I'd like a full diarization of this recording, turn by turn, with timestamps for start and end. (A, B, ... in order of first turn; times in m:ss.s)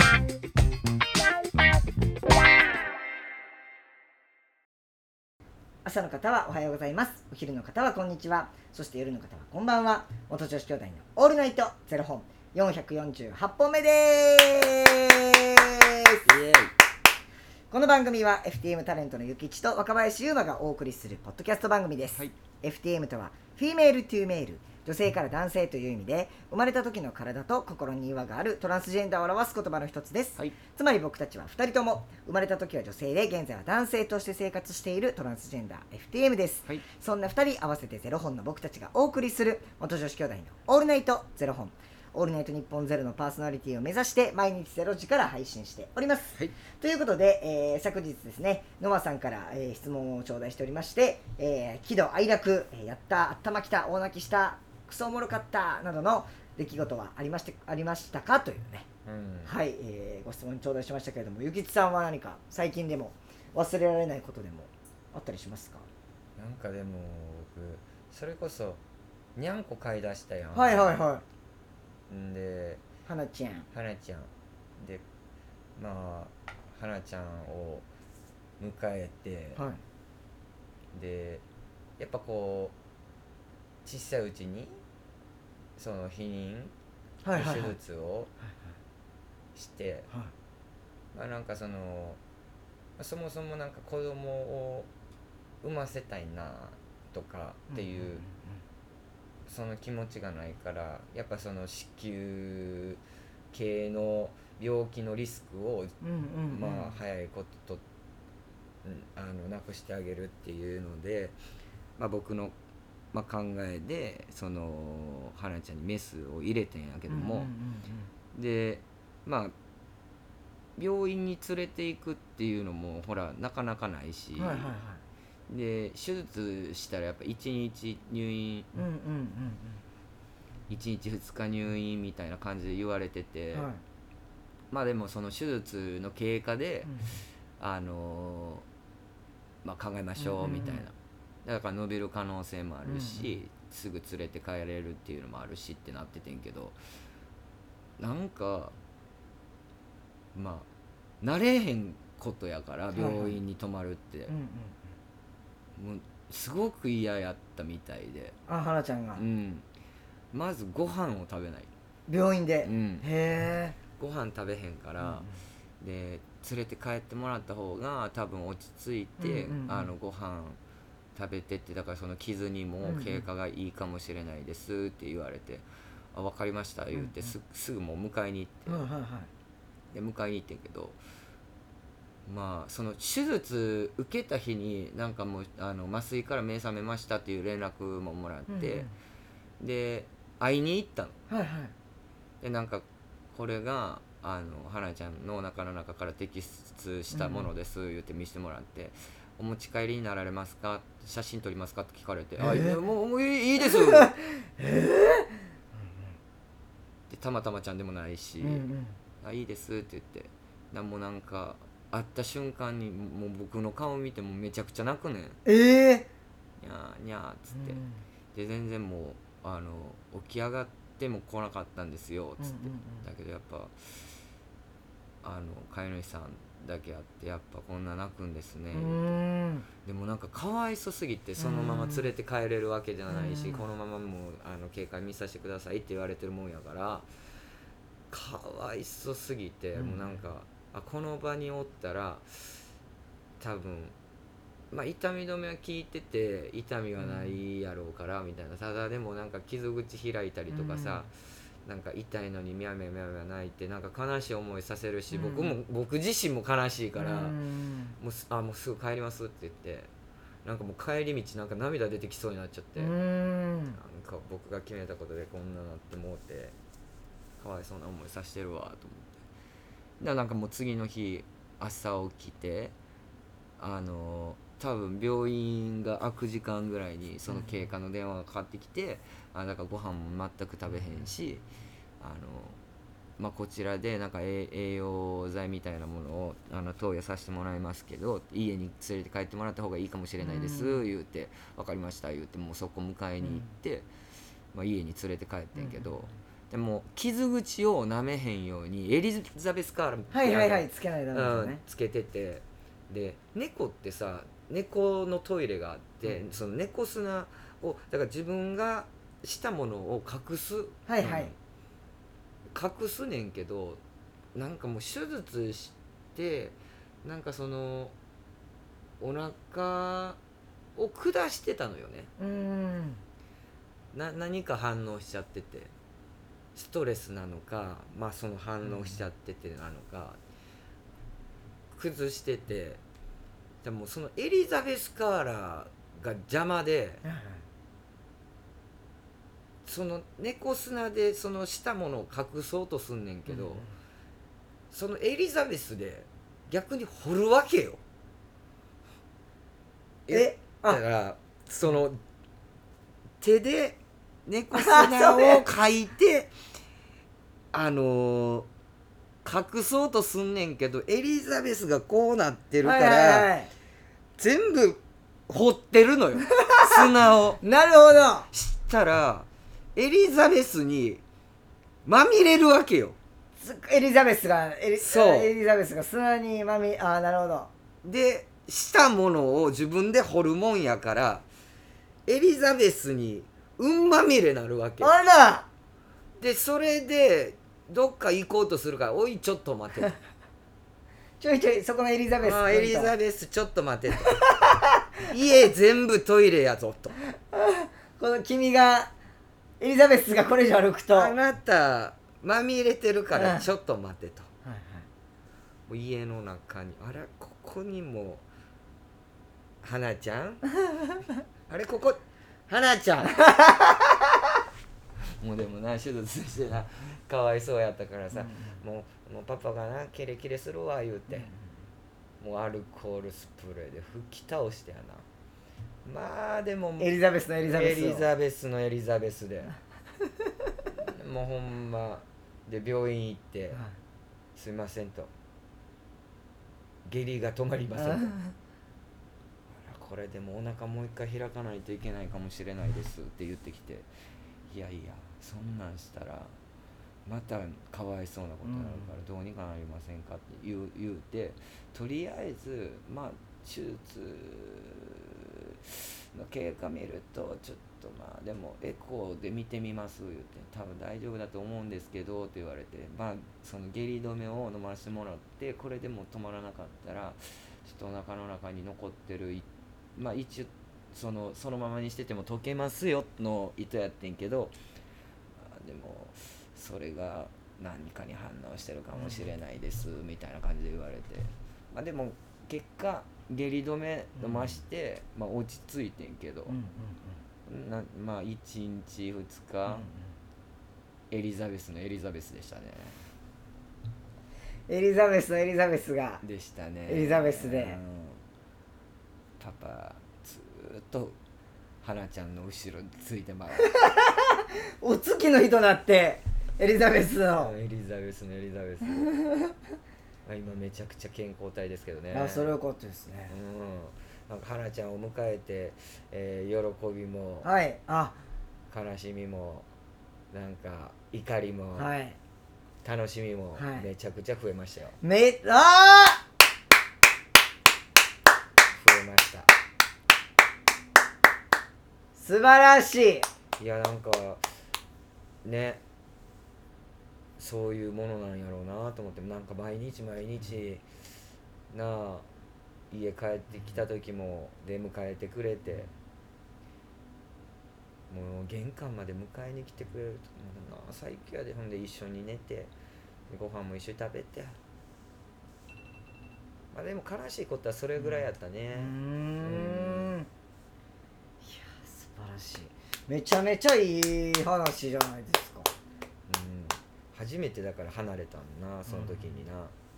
0:05.8-0:16.3 A
0:16.3-0:16.7 B
0:17.7-0:58.9 A
0:59.1-0:59.5 B
0:59.5-1:05.9 A
1:06.4-1:08.8 B
1:09.4-1:11.0 B
1:10.5-1:11.2 A
1:12.1-1:12.8 B
1:13.1-1:13.7 A
1:13.7-1:15.0 B
1:15.8-1:17.9 B
1:18.6-1:19.6 B
1:20.9-1:21.4 B
1:22.0-1:22.8 B
1:23.8-1:24.8 B
1:25.8-1:26.7 B
1:27.2-1:27.8 A
1:27.4-1:28.3 B
1:29.6-1:30.1 B
1:31.1-1:32.2 B
1:33.0-1:34.9 B
1:35.6-1:38.2 B
1:37.7-1:38.6 A
1:39.5-1:43.0 B
1:43.5-1:47.8 B
1:46.0-1:47.0 A
1:48.8-1:51.4 B
1:52.0-1:52.6 B
1:53.1-1:57.5 B
1:57.1-1:58.1 A
1:58.3-1:59.5 B
2:00.8-2:04.7 B
2:04.4-2:05.0 A
2:05.5-2:08.7 B
2:08.7-2:09.8 A
2:10.7-2:13.7 B
2:13.5-2:13.8 A
2:14.7-2:16.9 B
2:17.6-2:18.7 B
2:19.6-2:20.9 B
2:20.2-2:20.8 A
2:21.4-2:26.8 B
2:22.8-2:23.3 A
2:28.0-2:28.8 B
2:30.4-2:30.7 B
2:31.2-2:34.3 B
2:32.9-2:33.4 A
2:34.3-2:34.8 A
2:35.8-2:38.4 B
2:38.5-2:39.2 A
2:39.2-2:39.6 B
2:40.3-2:41.7 B
2:42.1-2:43.8 A
2:42.6-2:43.1 B
2:44.0-2:45.3 B
2:45.0-2:45.4 A
2:45.8-2:50.6 B
2:49.2-2:49.9 A
2:51.2-2:58.9 B
2:52.8-2:53.2 A
2:56.9-2:57.4 A
2:58.7-2:59.3 A
2:59.9-3:01.0 B
3:02.3-3:08.9 B
3:08.5-3:08.9 A
3:09.6-3:11.2 B
3:11.3-3:11.7 A
3:12.4-3:24.1 B
3:17.1-3:17.5 A
3:22.4-3:22.8 A
3:23.8-3:25.3 A
3:27.1-3:28.6 B
3:28.4-3:29.0 A
3:29.2-3:35.4 B
3:35.5-3:36.1 A
3:36.6-3:37.8 B
3:37.5-3:38.0 A
3:38.3-3:43.8 B
3:42.4-3:43.1 A
3:45.2-3:49.2 B
3:48.7-3:49.7 A
3:49.8-3:57.1 B
3:51.4-3:52.1 A
3:53.1-3:53.6 A
3:58.1-4:02.6 B
3:59.8-4:00.2 A
4:03.4-4:04.0 B
4:04.7-4:11.1 B
4:07.0-4:07.4 A
4:10.5-4:11.1 A
4:11.6-4:17.4 B
4:15.1-4:15.6 A
4:17.0-4:18.0 A
4:18.0-4:19.9 B
4:20.4-4:22.9 B
4:22.8-4:23.8 A
4:23.8-4:26.6 B
4:27.4-4:29.2 B
4:30.0-4:32.8 B
4:33.6-4:41.4 B
4:42.0-4:42.6 B
4:43.2-4:53.9 B
4:50.2-4:50.8 A
4:53.2-4:53.5 A
4:54.5-5:11.4 B
4:55.6-4:55.9 A
5:00.1-5:01.6 A
5:10.9-5:11.3 A
5:12.5-5:13.8 B
5:14.4-5:18.0 B
5:19.0-5:20.2 B
5:20.8-5:22.1 B
5:22.2-5:23.0 A
5:23.9-5:25.7 B
5:26.6-5:30.2 B
5:28.6-5:29.0 A
5:31.7-5:32.8 B
5:33.6-5:37.0 B
5:37.0-5:37.4 A
5:39.6-5:43.6 B
5:43.3-5:43.7 A
5:44.7-5:47.8 B
5:50.1-5:52.0 B
5:50.1-5:50.8 A
5:53.2-5:56.3 B
5:54.5-5:55.4 A
5:57.5-5:58.5 B
5:59.2-6:03.3 B
6:02.6-6:03.5 A
6:04.2-6:07.4 B
6:07.4-6:08.3 A
6:08.3-6:11.0 B
6:11.8-6:13.0 B
6:13.4-6:17.5 A
6:14.8-6:15.3 B
6:17.8-6:21.3 B
6:22.1-6:24.9 B
6:24.8-6:25.5 A
6:26.2-6:29.9 B
6:31.2-6:32.9 A
6:32.2-6:34.2 B
6:34.1-6:34.8 A
6:35.1-6:37.0 B
6:37.3-6:38.9 A
6:39.6-6:41.2 A
6:40.9-6:44.3 B
6:43.1-6:43.5 A
6:44.4-6:44.9 A
6:45.7-6:48.2 B
6:49.6-6:50.4 B
6:51.5-6:53.3 B
6:53.2-6:53.7 A
6:55.2-7:01.3 B
6:58.1-6:58.6 A
7:02.2-7:05.0 B
7:05.8-7:09.5 B
7:06.8-7:08.1 A
7:10.8-7:13.6 B
7:14.4-7:15.1 B
7:16.9-7:18.1 B
7:17.8-7:18.3 A
7:19.6-7:23.9 B
7:24.5-7:26.3 B
7:27.1-7:54.6 B
7:28.4-7:28.9 A
7:55.4-8:06.6 B
7:59.0-7:59.3 A
8:04.2-8:04.6 A
8:06.5-8:07.2 A
8:07.5-8:09.9 B
8:09.7-8:10.1 A
8:11.1-8:13.1 B
8:14.7-8:16.2 A
8:16.2-8:18.2 B
8:16.9-8:17.8 A
8:19.4-8:21.2 B
8:21.8-8:23.7 B
8:23.6-8:27.5 A
8:27.4-8:29.1 B
8:30.3-8:32.6 B
8:32.1-8:33.3 A
8:33.3-8:37.5 B
8:37.4-8:38.2 A
8:38.7-8:39.7 B
8:40.3-8:41.9 B
8:41.8-8:42.2 A
8:42.8-8:45.0 B
8:43.6-8:43.9 A
8:45.0-8:46.2 A
8:48.7-8:49.5 B
8:52.2-8:53.3 A
8:53.6-8:54.4 B
8:55.4-8:55.8 B
8:57.4-9:00.8 B
9:01.7-9:02.3 B
9:02.9-9:05.9 B
9:08.1-9:12.7 B
9:13.3-9:14.6 B
9:16.7-9:20.2 B
9:18.0-9:20.3 A
9:21.4-9:25.7 A
9:26.3-9:29.7 B
9:28.9-9:29.3 A